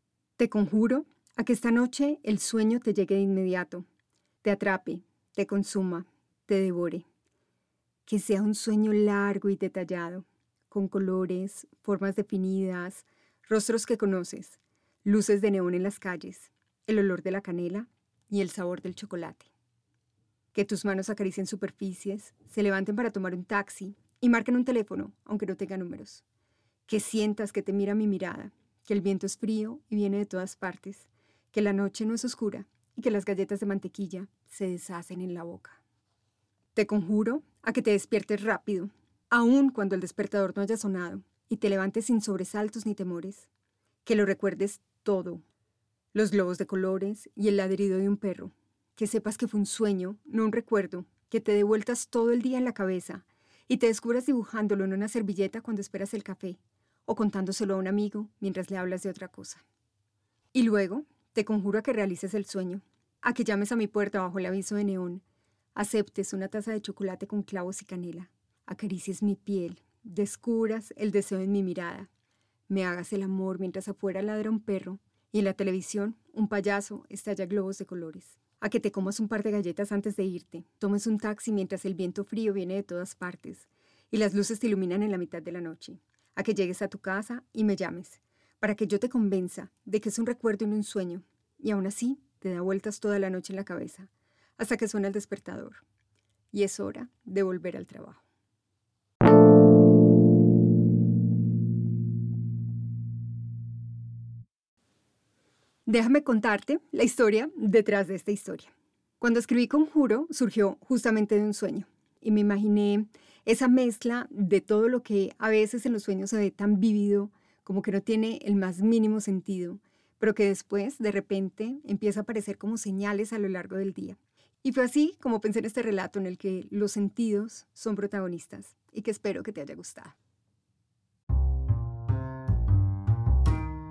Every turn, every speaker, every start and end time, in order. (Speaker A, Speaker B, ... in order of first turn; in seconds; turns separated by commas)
Speaker A: 0.4-3.8, Speaker A: 4.4-7.0, Speaker A: 8.1-19.5, Speaker A: 20.5-26.2, Speaker A: 26.9-35.8, Speaker A: 36.7-43.5, Speaker A: 44.0-45.4, Speaker A: 46.1-59.6, Speaker A: 60.5-65.2, Speaker A: 65.7-72.1, Speaker A: 72.7-95.8, Speaker A: 96.5-98.2, Speaker A: 105.8-130.2